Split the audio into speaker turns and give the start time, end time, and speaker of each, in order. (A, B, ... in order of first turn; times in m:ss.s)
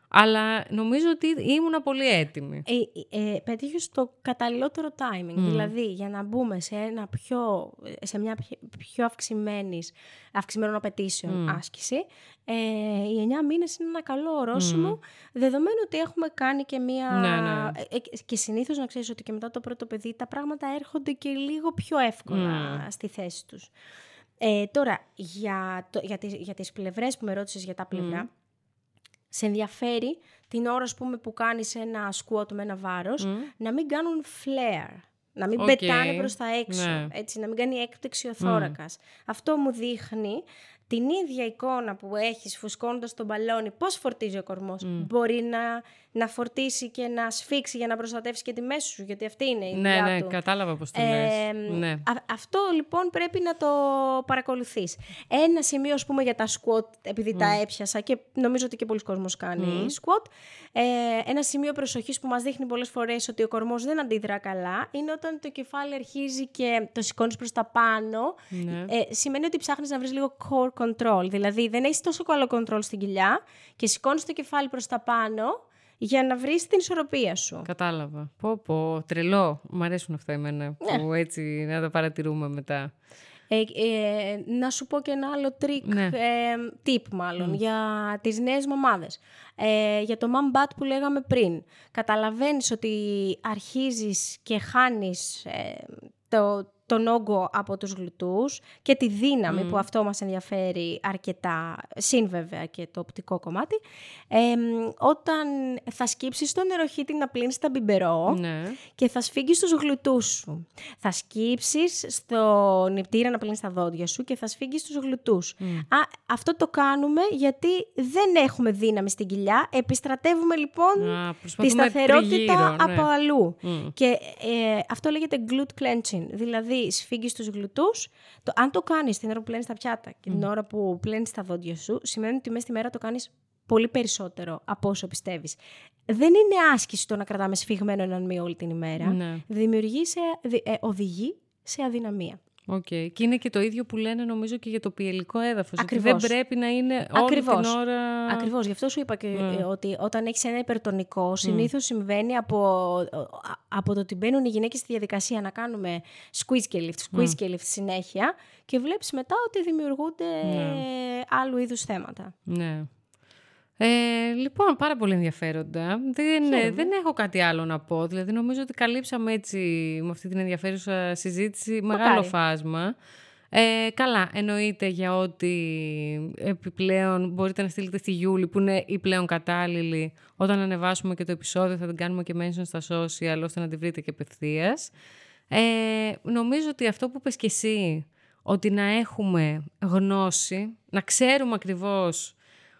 0:00.1-0:02.6 A
0:02.7-0:23.7 B
0:05.4-0:05.7 A
0:11.3-0:11.6 A
0:14.6-0:15.0 A
0:17.1-0:17.8 A
0:22.3-0:22.8 A
0:24.4-0:28.3 B
0:27.9-0:28.3 A
0:29.3-0:50.4 B
0:33.2-0:33.5 A
0:35.6-0:37.1 A
0:38.4-0:38.8 A
0:44.8-0:45.1 A
0:49.7-0:52.0 A
0:50.9-1:17.7 B
0:57.3-0:57.6 A
0:59.6-0:59.9 A
1:08.5-1:08.9 A
1:17.6-1:22.9 A
1:23.5-1:43.8 B
1:25.8-1:26.1 A
1:39.5-1:39.8 A
1:44.3-1:48.4 B
1:48.3-1:48.8 A
1:48.9-2:22.4 B
1:55.6-1:55.9 A
2:01.0-2:03.1 A
2:03.6-2:03.9 A
2:19.0-2:19.4 A
2:22.7-2:28.5 A
2:25.8-2:26.3 B
2:27.1-2:42.3 B
2:29.4-2:29.6 A
2:31.4-2:31.7 A
2:37.1-2:37.4 A
2:40.4-2:40.8 A
2:42.5-2:42.9 A
2:43.8-2:52.9 A
2:46.4-2:46.9 B
2:51.9-2:52.3 B
2:53.5-3:04.9 A
3:05.5-3:12.4 A